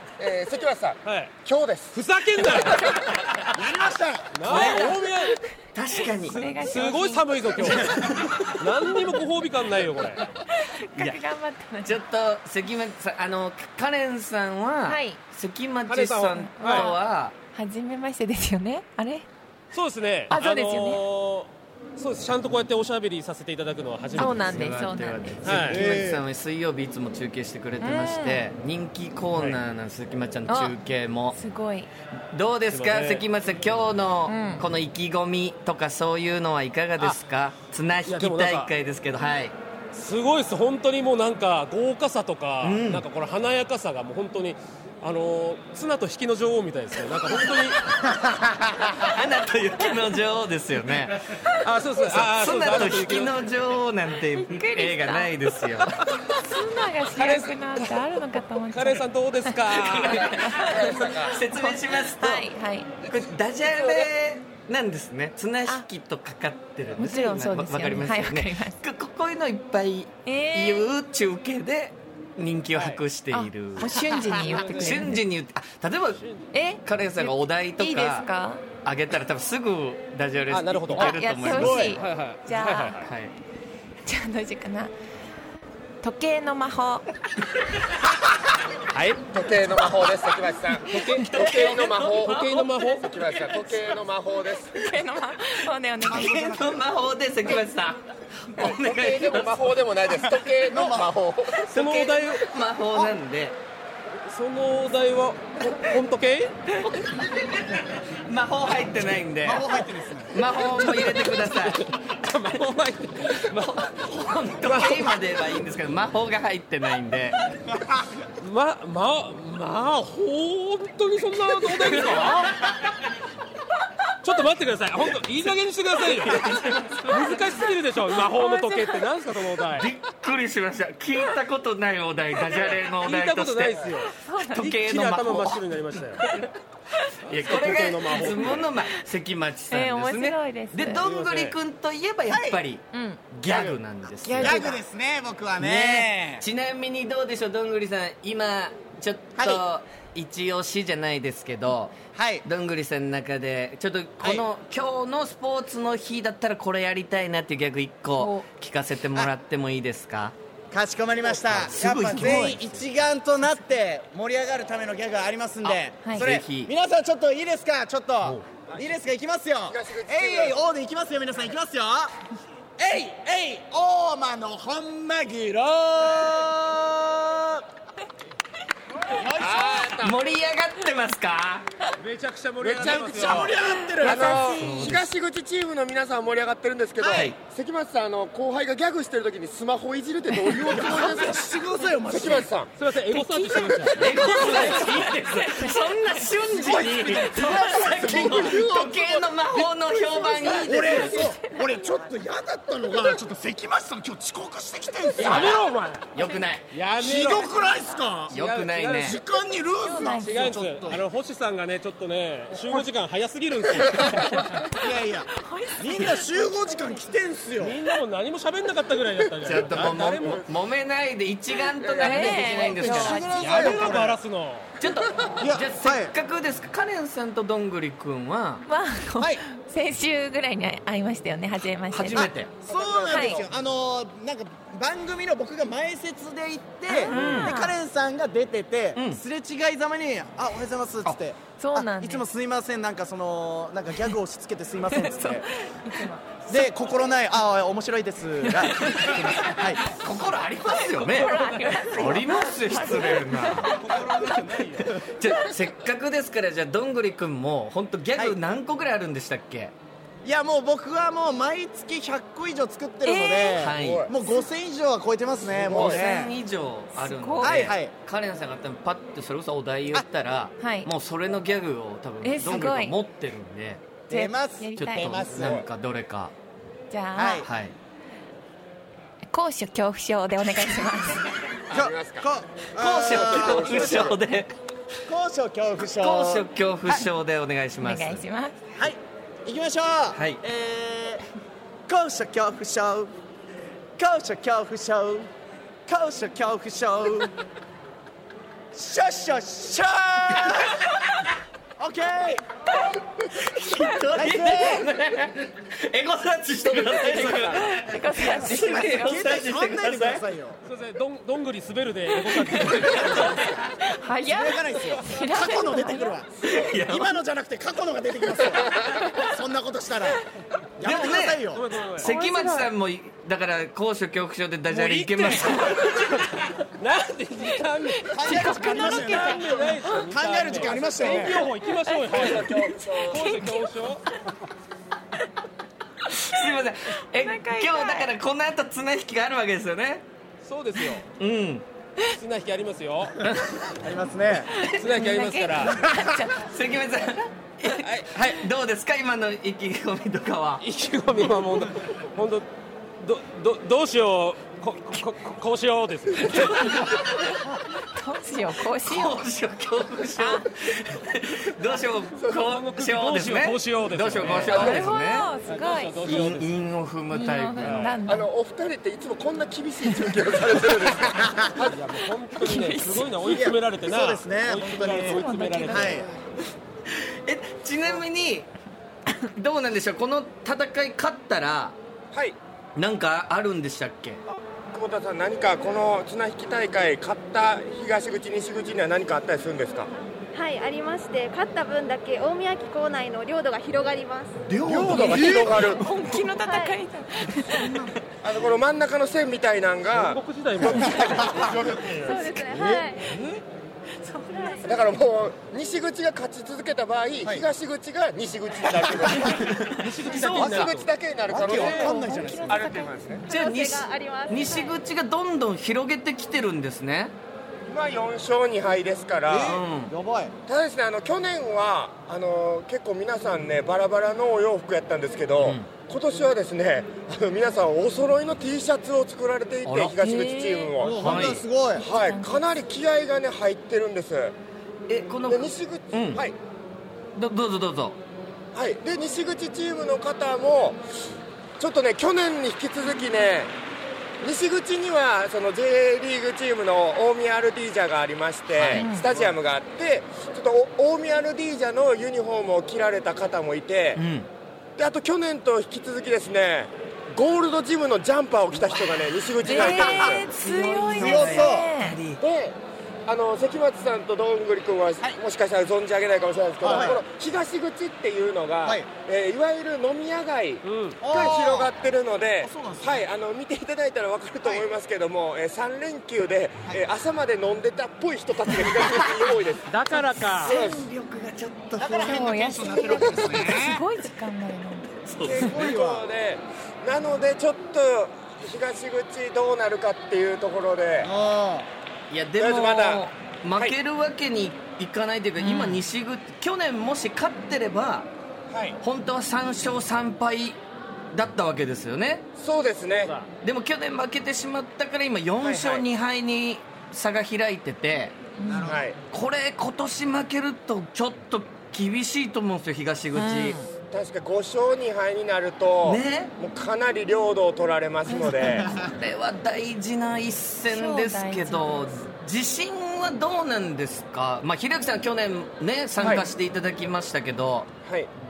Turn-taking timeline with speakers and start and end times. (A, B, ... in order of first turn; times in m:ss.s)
0:00.2-0:02.7 A
0:01.0-0:01.3 B
0:01.9-0:03.2 B
0:03.5-0:04.7 C
0:04.3-0:05.3 B
0:04.5-0:05.1 D
0:05.7-0:06.4 D
0:06.3-0:07.8 E
0:06.4-0:10.2 B
0:07.6-0:08.5 D
0:10.5-0:12.0 E
0:11.8-0:17.3 D
0:14.8-0:15.2 E
0:15.9-0:16.9 B
0:16.5-0:17.0 E
0:17.5-0:19.3 E
0:19.7-0:24.5 B
0:20.3-0:21.0 E
0:24.1-0:25.6 E
0:24.1-0:31.4 D
0:25.4-0:25.8 B
0:25.7-0:26.2 C
0:27.8-0:28.4 E
0:30.5-0:30.7 E
0:31.3-0:31.9 E
0:32.3-0:39.5 D
0:32.7-0:33.2 B
0:34.3-0:34.6 E
0:38.0-0:38.7 B
0:39.9-0:47.8 B
0:42.6-0:43.0 D
0:49.0-0:51.3 D
0:51.6-0:53.4 B
0:52.0-0:56.0 D
0:54.3-0:55.3 E
0:56.4-1:02.9 E
0:57.1-0:58.1 B
0:58.7-1:00.4 B
0:59.9-1:00.4 D
1:00.6-1:01.4 A
1:01.2-1:02.5 D
1:03.0-1:16.2 D
1:03.7-1:04.1 B
1:07.0-1:08.8 E
1:10.2-1:10.9 E
1:12.7-1:13.0 B
1:13.3-1:15.2 E
1:14.2-1:15.1 B
1:16.2-1:16.4 B
1:16.5-1:18.6 E
1:16.8-1:18.3 D
1:18.8-1:22.1 D
1:20.5-1:21.1 B
1:21.0-1:23.0 E
1:21.5-1:21.9 C
1:22.0-1:23.1 B
1:23.0-1:23.3 D
1:24.0-1:24.9 E
1:26.0-1:27.1 E
1:28.9-1:29.2 B
1:29.3-1:34.8 A
1:30.9-1:31.4 B
1:31.0-1:32.6 D
1:32.2-1:33.1 B
1:34.7-1:36.6 E
1:36.1-1:36.8 C
1:36.1-1:39.8 D
1:38.6-1:41.7 A
1:40.6-1:41.1 C
1:41.7-1:42.4 B
1:41.7-1:43.6 D
1:44.3-1:46.6 B
1:46.8-1:49.7 D
1:49.4-1:50.4 C
1:50.3-1:51.9 D
1:50.5-1:53.6 B
1:53.4-1:57.4 D
1:54.6-1:55.1 B
1:58.4-2:02.6 B
2:04.2-2:09.9 B
2:08.2-2:09.0 E
2:09.7-2:16.5 D
2:12.5-2:16.2 B
2:14.2-2:14.7 E
2:17.3-2:24.7 D
2:17.3-2:18.7 B
2:19.7-2:21.0 E
2:21.0-2:21.6 B
2:22.2-2:22.6 C
2:22.9-2:23.2 E
2:23.5-2:23.8 B
2:24.3-2:24.8 E
2:24.3-2:26.4 C
2:25.6-2:40.3 D
2:29.4-2:29.6 C
2:32.1-2:32.4 C
2:38.2-2:38.4 E
2:40.7-2:52.1 C
2:41.4-2:42.9 D
2:45.6-2:46.7 D
2:46.0-2:46.3 E
2:49.7-2:50.6 A
2:52.8-2:57.6 C
2:59.1-3:00.0 C
2:59.4-3:00.2 A
3:00.0-3:01.6 D
3:02.0-3:03.6 B
3:02.6-3:11.5 A
3:02.8-3:04.6 C
3:04.2-3:04.6 E
3:04.6-3:05.0 D
3:07.0-3:07.4 D
3:10.4-3:12.5 C
3:12.1-3:12.7 A
3:12.8-3:15.1 B
3:13.1-3:15.0 E
3:13.9-3:21.3 D
3:15.6-3:16.3 E
3:16.5-3:18.9 C
3:17.3-3:17.8 E
3:18.0-3:19.2 A
3:20.2-3:22.0 E
3:20.6-3:25.6 C
3:25.2-3:26.1 B
3:25.2-3:25.6 D
3:26.1-3:26.7 D
3:26.7-3:27.5 B
3:27.0-3:28.3 C
3:27.3-3:28.0 E
3:28.3-3:29.2 B
3:28.3-3:29.2 D
3:29.0-3:31.0 C
3:29.8-3:30.6 E
3:30.2-3:34.7 B
3:34.7-3:37.8 C
3:35.4-3:36.5 E
3:37.6-3:40.4 B
3:39.4-3:43.5 D
3:40.2-3:40.4 A
3:41.8-3:42.7 A
3:42.0-3:43.8 E
3:42.7-3:44.2 C
3:43.4-3:44.7 B
3:44.8-3:48.6 D
3:45.4-3:46.1 C
3:48.7-3:52.3 E
3:51.9-3:52.5 D
3:52.1-4:05.5 C
3:52.6-3:53.5 A
3:53.1-3:53.4 E
3:56.9-3:57.8 E
3:57.1-3:57.6 D
3:58.9-3:59.2 D
4:01.6-4:02.2 E
4:04.9-4:06.3 E
4:06.5-4:09.8 C
4:08.6-4:13.8 D
4:11.1-4:13.8 E
4:13.8-4:14.8 B
4:13.8-4:15.0 C
4:14.7-4:19.7 D
4:20.2-4:26.3 C
4:23.0-4:23.6 E
4:23.6-4:24.1 D
4:23.8-4:24.1 A
4:25.6-4:26.0 A
4:25.7-4:33.8 D
4:26.9-4:27.7 E
4:27.4-4:27.9 C
4:30.6-4:30.9 E
4:32.2-4:33.0 E
4:34.1-4:35.3 E
4:34.1-4:35.6 C
4:34.8-4:36.3 D
4:35.4-4:35.6 A
4:36.9-4:37.4 E
4:37.1-4:37.5 C
4:37.4-4:37.7 D
4:39.3-4:41.3 E
4:41.7-4:42.2 A
4:41.7-4:44.2 C
4:42.8-4:44.5 D
4:43.0-4:44.2 A
4:45.1-4:47.0 C
4:45.9-4:48.2 D
4:47.8-4:48.6 E
4:48.8-4:51.2 C
4:50.1-4:50.4 D
4:51.9-4:53.1 C
4:54.0-4:55.3 C
4:55.9-4:57.3 C
4:58.7-5:00.8 C
5:00.4-5:01.1 D
5:01.8-5:02.4 C
5:03.3-5:10.2 D
5:04.1-5:04.9 C
5:06.5-5:07.6 A
5:07.2-5:09.3 E
5:08.3-5:10.6 C
5:10.6-5:13.5 B
5:12.3-5:16.2 E
5:13.0-5:13.3 D
5:14.2-5:20.2 C
5:16.4-5:17.2 D
5:20.8-5:21.6 C
5:20.8-5:26.1 D
5:21.5-5:22.7 B
5:24.7-5:26.3 B
5:26.8-5:34.0 B
5:28.0-5:30.0 E
5:28.1-5:31.4 C
5:31.8-5:33.7 E
5:32.1-5:33.4 A
5:36.1-5:40.0 D
5:37.2-5:38.1 E
5:40.4-5:41.0 B
5:41.2-5:41.6 D
5:42.1-5:43.2 B
5:43.8-5:44.5 C
5:44.5-5:46.5 E
5:44.8-5:45.9 B
5:46.4-5:50.6 D
5:47.7-5:48.4 B
5:50.6-5:52.5 B
5:53.0-5:56.8 B
5:56.4-5:56.9 E
5:57.9-5:59.2 E
5:58.8-6:05.3 D
6:00.2-6:00.5 E
6:02.5-6:04.8 B
6:04.3-6:04.8 A
6:04.4-6:06.3 E
6:05.4-6:06.5 B
6:06.0-6:08.0 D
6:07.1-6:08.3 E
6:07.6-6:07.9 B
6:08.1-6:11.8 A
6:11.7-6:16.0 B
6:12.4-6:13.0 E
6:13.2-6:16.0 C
6:14.8-6:16.1 E
6:16.9-6:18.5 D
6:19.3-6:21.8 D
6:22.1-6:22.4 A
6:22.8-6:24.2 D
6:24.7-6:29.9 A
6:30.3-6:34.4 F
6:34.5-6:35.6 D
6:34.6-6:35.8 A
6:34.7-6:35.3 C
6:34.9-6:37.8 E
6:36.4-6:36.8 F
6:37.5-6:37.9 C
6:38.2-6:42.3 A
6:39.9-6:41.2 B
6:42.0-6:43.2 F
6:42.5-6:43.2 C
6:44.0-6:44.7 E
6:44.2-6:44.8 F
6:44.6-6:49.6 A
6:48.8-6:49.3 C
6:49.4-6:50.6 D
6:49.7-6:50.9 B
6:50.1-6:51.9 A
6:50.4-6:50.6 C
6:51.3-6:52.7 C
6:51.5-6:53.3 E
6:51.5-6:51.9 B
6:52.4-6:53.2 A
6:53.3-6:54.8 F
6:53.3-6:57.1 D
6:57.7-6:59.6 A
6:59.3-7:00.3 C
6:59.4-6:59.9 D
7:00.5-7:11.2 A
7:05.4-7:05.7 D
7:09.6-7:10.2 D
7:10.0-7:10.7 E
7:10.8-7:11.8 C
7:10.8-7:11.4 D
7:11.8-7:12.4 E
7:11.8-7:14.3 A
7:14.9-7:16.2 D
7:15.3-7:16.4 A
7:17.2-7:18.0 D
7:18.5-7:20.8 A
7:21.6-7:23.5 A
7:24.2-7:34.0 A
7:28.6-7:28.8 D
7:28.7-7:29.0 E
7:34.0-7:34.3 D
7:34.8-7:40.2 A
7:39.4-7:42.0 E
7:39.5-7:42.2 D
7:40.9-7:41.7 C
7:42.2-7:59.7 A
7:46.6-7:47.0 C
7:50.6-7:51.0 B
7:51.0-7:51.7 C
7:52.4-7:53.0 C
7:59.7-8:00.6 B
8:00.4-8:02.3 D
8:00.4-8:00.8 A
8:01.8-8:03.8 C
8:02.0-8:04.9 E
8:05.0-8:05.6 D
8:05.2-8:06.0 C
8:05.2-8:11.1 A
8:11.0-8:11.7 C
8:12.1-8:18.1 D
8:12.4-8:13.0 A
8:15.4-8:15.8 E
8:18.5-8:18.8 A
8:18.8-8:20.6 D
8:21.1-8:22.2 D
8:22.4-8:23.1 A
8:23.4-8:28.2 D
8:25.4-8:25.8 A
8:28.4-8:28.7 E
8:28.4-8:28.8 C
8:28.6-8:29.0 A
8:29.1-8:33.7 D
8:33.2-8:33.6 E
8:33.9-8:38.7 A
8:35.8-8:36.3 D
8:38.1-8:38.8 E
8:38.4-8:38.9 C
8:38.7-8:47.7 D
8:40.7-8:42.1 E
8:46.0-8:46.3 A
8:47.8-8:48.1 A